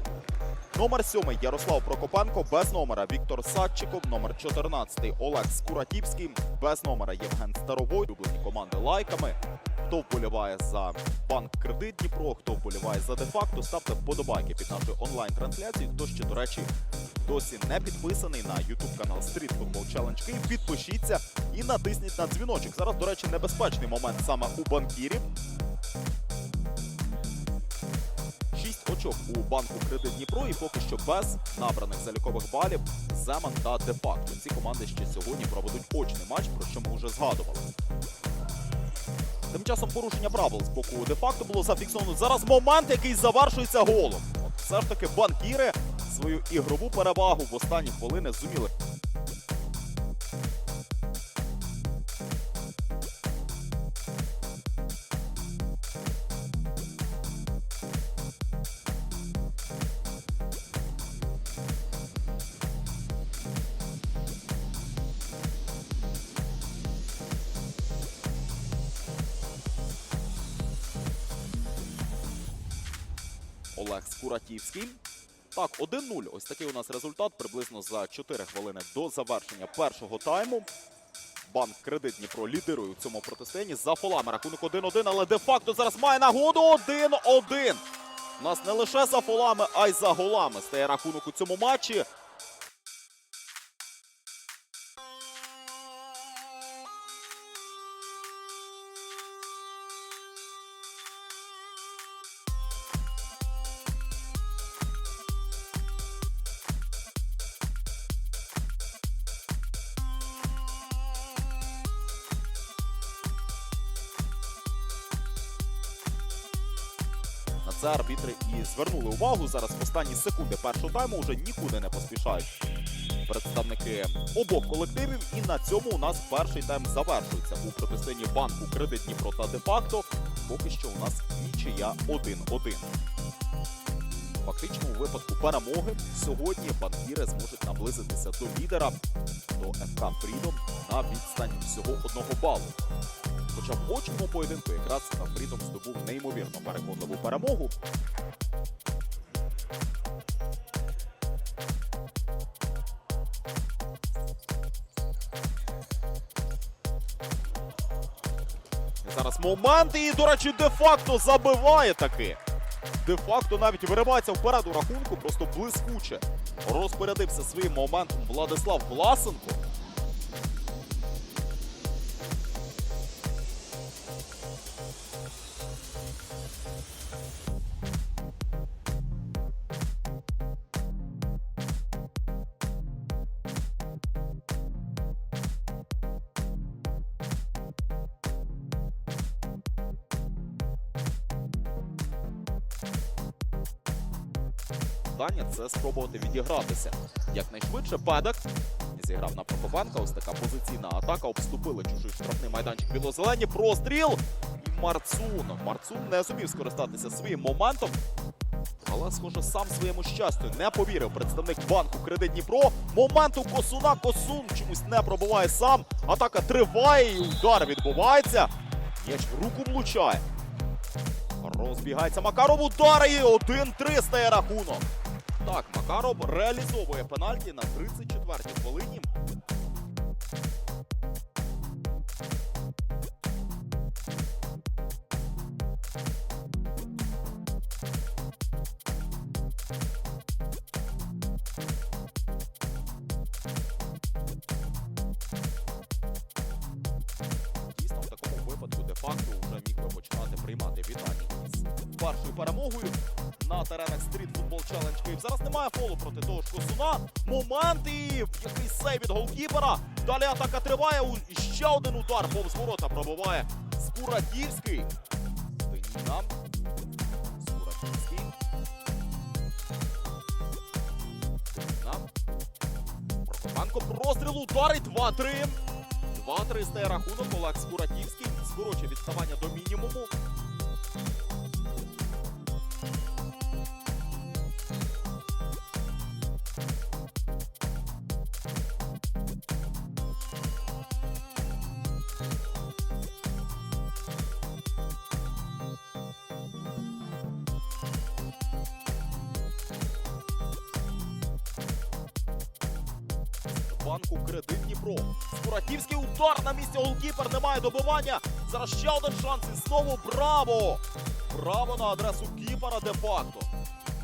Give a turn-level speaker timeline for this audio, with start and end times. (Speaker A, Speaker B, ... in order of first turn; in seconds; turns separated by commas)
Speaker A: 0.7-16.7, Speaker A: 17.2-25.3, Speaker A: 28.5-37.7, Speaker A: 39.5-48.7, Speaker A: 73.7-75.0, Speaker A: 75.5-80.7, Speaker A: 81.5-87.8, Speaker A: 88.4-92.1, Speaker A: 117.6-122.5, Speaker A: 123.2-132.9, Speaker A: 134.4-139.0, Speaker A: 139.5-142.8, Speaker A: 143.5-147.7, Speaker A: 159.0-162.4, Speaker A: 163.0-169.6, Speaker A: 195.1-208.0, Speaker A: 208.8-220.2, Speaker A: 221.4-224.8, Speaker A: 225.4-229.1, Speaker A: 247.7-264.9, Speaker A: 265.6-266.4, Speaker A: 267.2-268.3, Speaker A: 271.5-272.1, Speaker A: 273.2-280.1, Speaker A: 303.5-313.5